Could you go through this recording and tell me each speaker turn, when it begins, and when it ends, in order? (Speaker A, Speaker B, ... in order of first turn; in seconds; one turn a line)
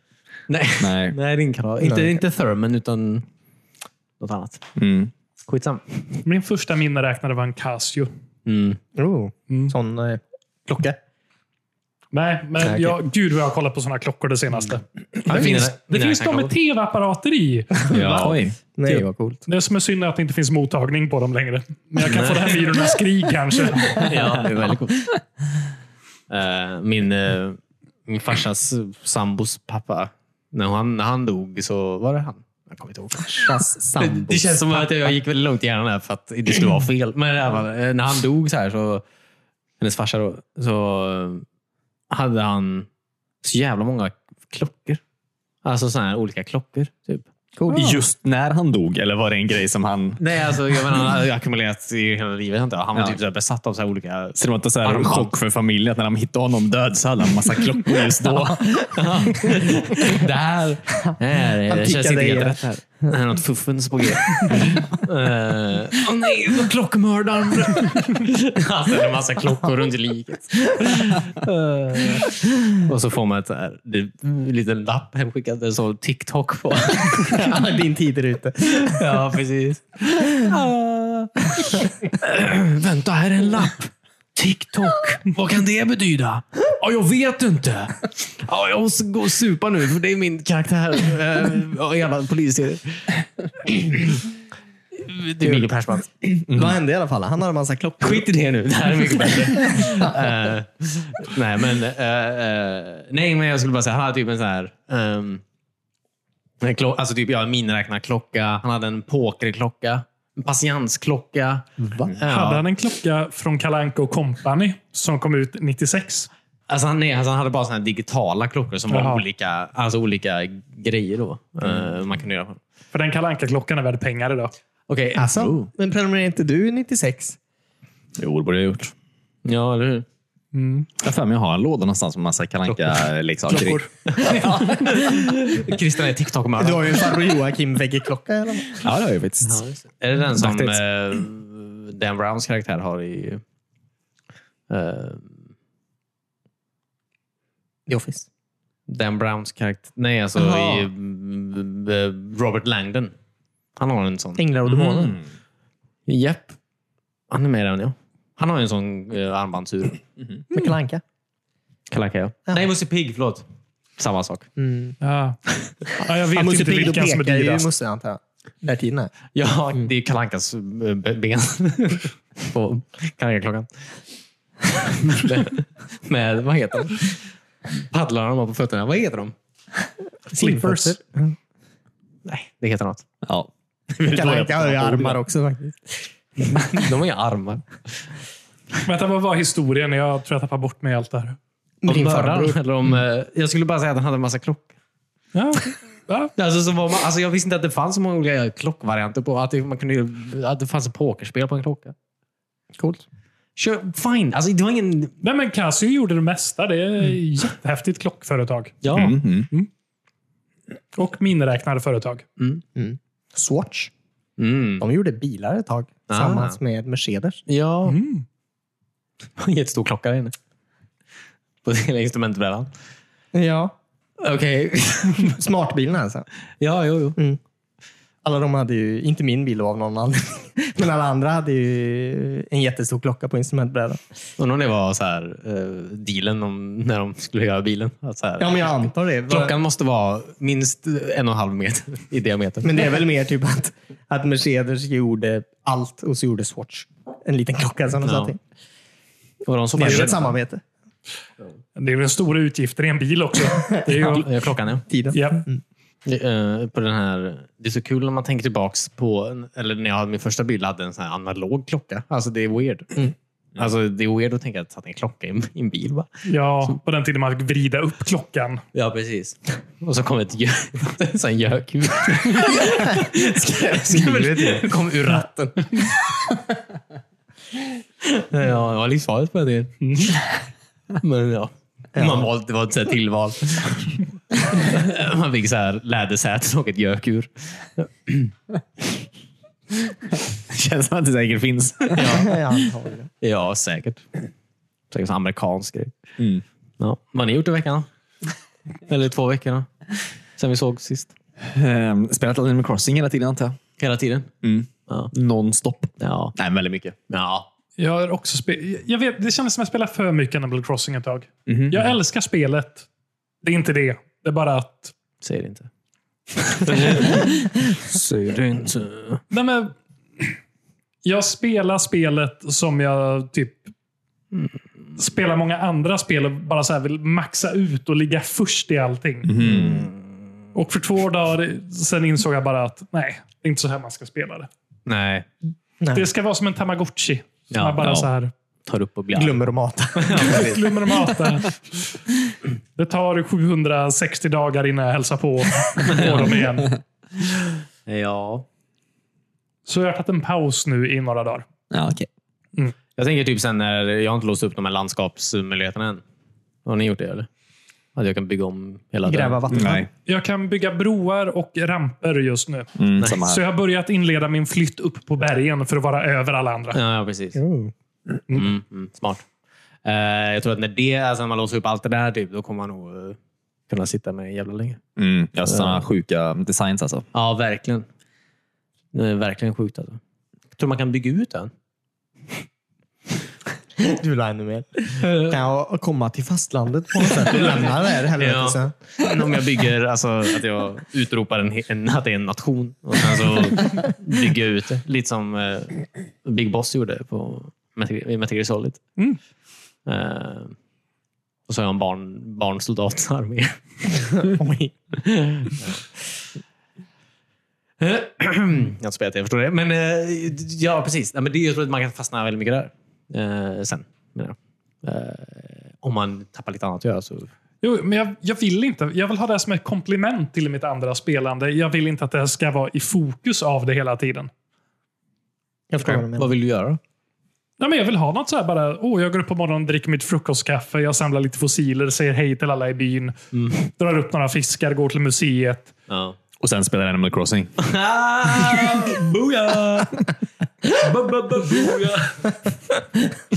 Speaker A: 0.5-3.2
Speaker B: 0.8-1.2
Speaker C: 1.8-2.2
Speaker A: 4.2-4.6
Speaker B: 4.8-5.1
Speaker A: 5.5-6.0
Speaker D: 6.2-8.1
Speaker A: 8.4-8.8
Speaker C: 8.9-11.0
Speaker D: 12.1-17.8
Speaker C: 12.6-12.9
Speaker A: 15.2-16.5
Speaker C: 15.3-15.7
Speaker C: 17.7-19.4
Speaker A: 17.9-18.5
Speaker B: 17.9-18.6
Speaker D: 19.5-24.4
Speaker A: 22.0-22.8
Speaker A: 23.8-25.1
Speaker A: 26.3-39.0
Speaker C: 33.2-35.1
Speaker A: 39.8-41.4
Speaker A: 42.1-42.9
Speaker A: 43.4-45.0
Speaker A: 45.6-47.2
Speaker C: 47.5-48.0
Speaker B: 47.7-50.2
Speaker A: 50.2-55.3
Speaker B: 54.4-58.9
Speaker C: 58.6-59.6
Speaker A: 58.9-77.5
Speaker C: 61.5-62.6
Speaker C: 77.2-79.0
Speaker A: 78.7-94.2
Speaker C: 80.2-80.5
Speaker A: 94.9-96.1
Speaker C: 95.4-95.7
Speaker C: 96.2-98.2
Speaker B: 96.5-96.8
Speaker A: 98.0-105.4
Speaker C: 99.7-100.1
Speaker A: 106.6-112.6
Speaker C: 111.8-112.1
Speaker D: 112.2-116.3
Speaker A: 116.7-122.6
Speaker D: 118.9-119.2
Speaker D: 122.9-124.5
Speaker A: 124.9-125.6
Speaker C: 125.1-127.4
Speaker B: 128.2-128.9
Speaker A: 129.4-130.1
Speaker D: 130.5-130.9
Speaker B: 131.0-134.8
Speaker D: 133.5-133.9
Speaker A: 134.1-137.2
Speaker C: 136.6-138.8
Speaker B: 138.8-139.6
Speaker A: 139.4-143.4
Speaker B: 140.3-140.8
Speaker A: 144.7-145.4
Speaker C: 147.9-148.3
Speaker A: 148.9-153.1
Speaker C: 150.3-150.9
Speaker A: 153.8-154.4
Speaker C: 154.4-155.2
Speaker B: 154.7-155.2
Speaker A: 156.1-156.6
Speaker A: 157.3-160.0
Speaker C: 160.5-161.0
Speaker A: 161.9-163.4
Speaker A: 164.0-164.5
Speaker C: 164.6-165.0
Speaker D: 165.0-167.7
Speaker C: 166.3-169.1
Speaker A: 169.3-173.9
Speaker A: 174.8-179.3
Speaker C: 180.3-181.3
Speaker D: 180.4-180.9
Speaker A: 182.2-183.0
Speaker B: 183.2-183.5
Speaker A: 184.0-185.1
Speaker B: 184.0-185.1
Speaker C: 184.1-185.9
Speaker A: 186.4-187.9
Speaker D: 188.8-191.4
Speaker C: 191.8-192.6
Speaker A: 191.8-194.7
Speaker D: 195.3-196.3
Speaker A: 196.3-201.9
Speaker C: 202.8-203.0
Speaker A: 203.6-205.1
Speaker D: 205.2-208.8
Speaker A: 208.8-209.2
Speaker B: 208.9-209.5
Speaker D: 210.9-212.2
Speaker C: 212.8-213.9
Speaker A: 214.4-214.8
Speaker C: 214.8-217.4
Speaker A: 216.1-216.6
Speaker A: 217.5-218.0
Speaker D: 217.9-218.2
Speaker A: 219.4-220.3
Speaker A: 221.6-222.7
Speaker C: 223.3-223.7
Speaker A: 224.2-225.3
Speaker C: 225.2-226.2
Speaker A: 226.6-227.2
Speaker C: 228.2-234.0
Speaker A: 234.4-242.8
Speaker C: 238.4-239.6
Speaker C: 242.6-248.4
Speaker A: 248.0-248.3
Speaker A: 249.4-250.3
Speaker C: 249.8-250.6
Speaker D: 249.8-250.2
Speaker D: 251.8-254.4
Speaker A: 253.9-254.8
Speaker C: 254.9-255.6
Speaker D: 255.1-255.4
Speaker A: 256.0-266.1
Speaker D: 266.2-268.6
Speaker A: 268.7-275.9
Speaker C: 272.7-274.7
Speaker A: 278.0-280.1
Speaker D: 279.8-280.1
Speaker A: 281.0-288.3
Speaker C: 281.9-282.3
Speaker B: 290.3-292.4
Speaker A: 291.9-292.4
Speaker C: 292.0-293.1
Speaker A: 293.2-294.2
Speaker A: 294.9-295.9
Speaker B: 296.2-296.4
Speaker A: 296.8-297.9
Speaker A: 298.9-301.1
Speaker B: 301.4-303.6
Speaker A: 303.8-304.3
Speaker B: 304.4-306.9
Speaker A: 304.9-305.1
Speaker A: 306.0-306.4
Speaker A: 307.1-307.5
Speaker D: 307.8-312.9
Speaker B: 311.5-311.8
Speaker D: 313.4-314.9
Speaker A: 315.2-315.7
Speaker A: 316.4-319.2
Speaker B: 317.9-318.3
Speaker D: 319.3-320.3
Speaker D: 321.0-323.7
Speaker D: 325.0-329.3
Speaker B: 329.2-329.9
Speaker A: 329.4-330.1
Speaker D: 330.5-334.5
Speaker A: 334.9-335.3
Speaker C: 335.8-336.1
Speaker D: 335.9-338.3
Speaker A: 337.5-337.9
Speaker B: 337.8-338.1
Speaker A: 338.6-339.4
Speaker C: 339.1-340.6
Speaker A: 339.9-340.6
Speaker D: 340.1-341.9
Speaker D: 342.8-346.8
Speaker A: 345.8-346.3
Speaker A: 347.9-348.4
Speaker D: 349.6-351.5
Speaker B: 351.7-352.1
Speaker A: 353.0-356.0
Speaker A: 356.6-357.3
Speaker A: 357.9-359.4
Speaker C: 359.0-359.9
Speaker B: 359.5-359.9
Speaker D: 360.1-366.8
Speaker B: 362.8-363.4
Speaker A: 363.0-363.2
Speaker A: 366.7-367.4
Speaker C: 367.4-367.7
Speaker A: 368.3-369.2
Speaker A: 369.8-373.2
Speaker A: 373.7-374.8
Speaker B: 374.9-377.1
Speaker A: 375.5-375.8
Speaker A: 377.1-377.9
Speaker A: 378.9-380.0
Speaker A: 380.5-381.5
Speaker C: 383.8-388.7
Speaker A: 385.0-385.3
Speaker A: 387.3-398.8
Speaker A: 399.9-400.6
Speaker A: 401.5-403.6
Speaker C: 404.0-404.7
Speaker A: 405.0-405.8
Speaker A: 407.8-417.3
Speaker D: 417.6-424.3
Speaker C: 425.7-426.3
Speaker A: 425.8-426.8
Speaker D: 427.6-435.7
Speaker A: 433.3-433.6
Speaker A: 435.9-436.2
Speaker B: 436.4-437.6
Speaker A: 437.6-440.1
Speaker A: 440.6-442.3